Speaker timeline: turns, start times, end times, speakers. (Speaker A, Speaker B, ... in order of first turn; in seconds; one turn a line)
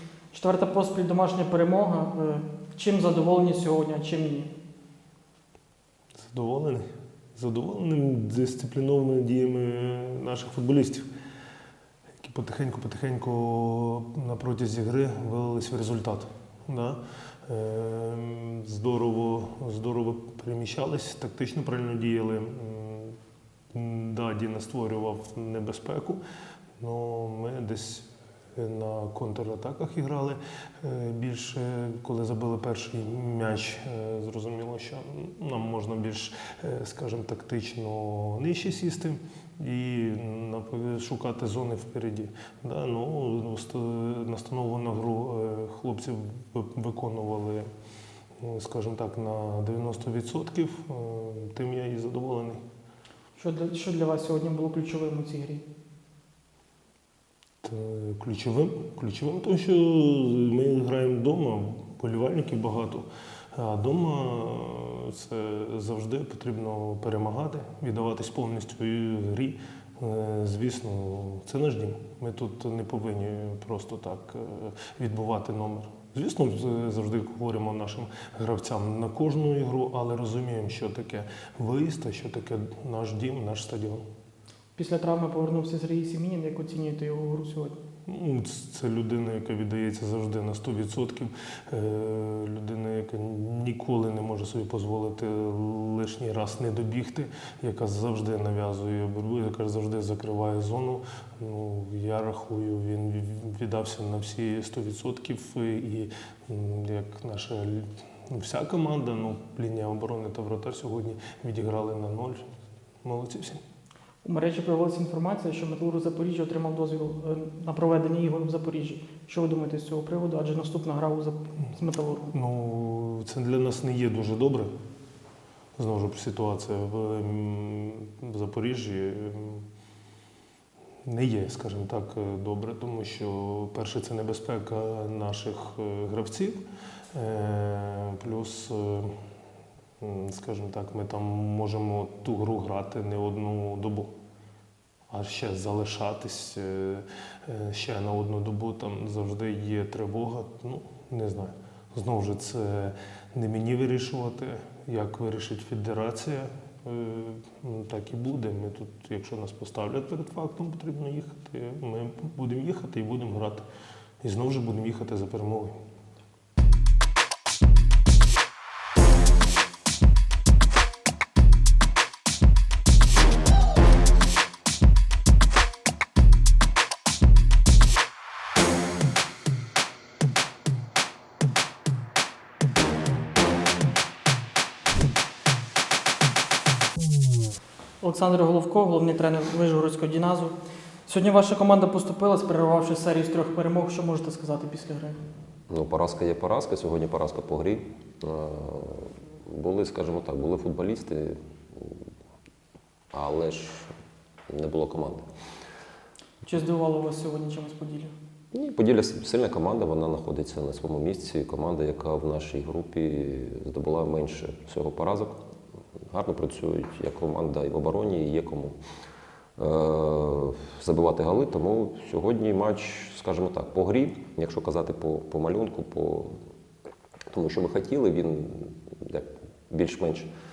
Speaker A: 0.3-4.5
Speaker B: 6.2-11.1
Speaker B: 12.2-23.2
Speaker B: 23.7-26.2
Speaker B: 26.8-47.7
Speaker B: 48.4-52.6
Speaker A: 53.4-55.6
Speaker B: 57.6-84.0
Speaker A: 84.8-87.8
Speaker B: 88.1-112.4
Speaker B: 113.0-113.6
Speaker A: 114.2-122.3
Speaker B: 122.3-124.7
Speaker B: 125.8-129.7
Speaker B: 131.1-136.6
Speaker B: 137.1-139.1
Speaker B: 140.0-144.1
Speaker B: 145.1-163.6
Speaker B: 164.2-165.7
Speaker A: 188.0-190.5
Speaker A: 191.1-195.2
Speaker C: 195.7-202.0
Speaker C: 203.1-203.9
Speaker C: 204.5-205.2
Speaker A: 206.4-208.1
Speaker C: 208.5-215.4
Speaker C: 216.1-218.8
Speaker C: 219.6-226.3
Speaker C: 227.3-230.3